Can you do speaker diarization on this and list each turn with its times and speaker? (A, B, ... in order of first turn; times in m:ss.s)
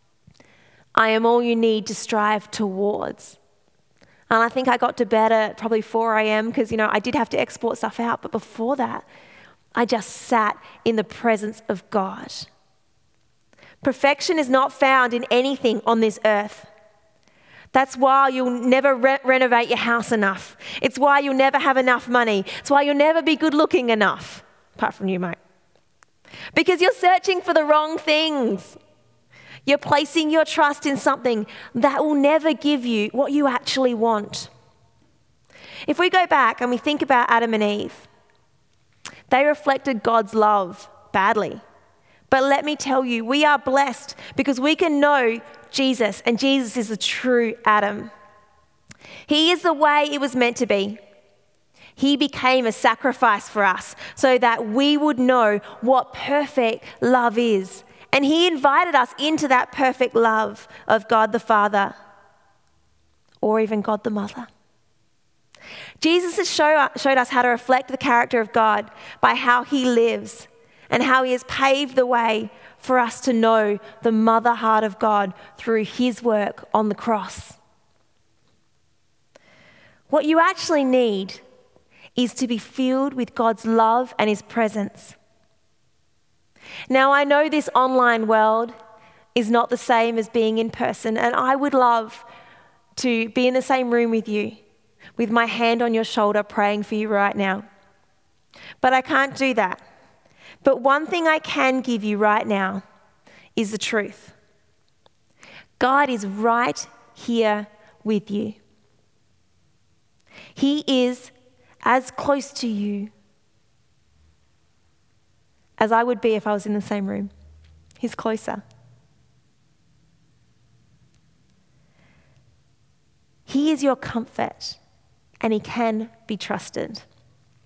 0:01.0-0:03.4 A
0:04.3-0:09.1 A
0:09.8-0:12.5 A
0:13.8-0:16.7 A
0:17.7-0:25.4 A
0:26.5-0:28.8 A
0:29.7-0:34.5 A
0:35.9-0:38.1 A
0:39.3-0:41.6 A
0:42.3-0:48.1 A
0:49.3-0:51.0 A
0:52.0-1:02.0 A
1:03.4-1:04.5 A
1:06.0-1:17.6 A
1:20.1-1:21.4 A
1:22.2-1:25.2 A
1:26.9-1:28.8 A
1:29.4-1:32.3 A
1:33.0-1:34.6 A
1:35.2-1:37.7 A
1:38.8-1:39.8 A
1:40.6-1:42.8 A
1:43.6-1:44.4 A
1:45.8-1:48.6 A
1:50.6-1:51.3 A
1:51.8-1:53.1 A
1:55.8-1:57.3 A
1:58.0-1:58.6 A
2:03.5-2:04.8 A
2:05.4-2:07.1 A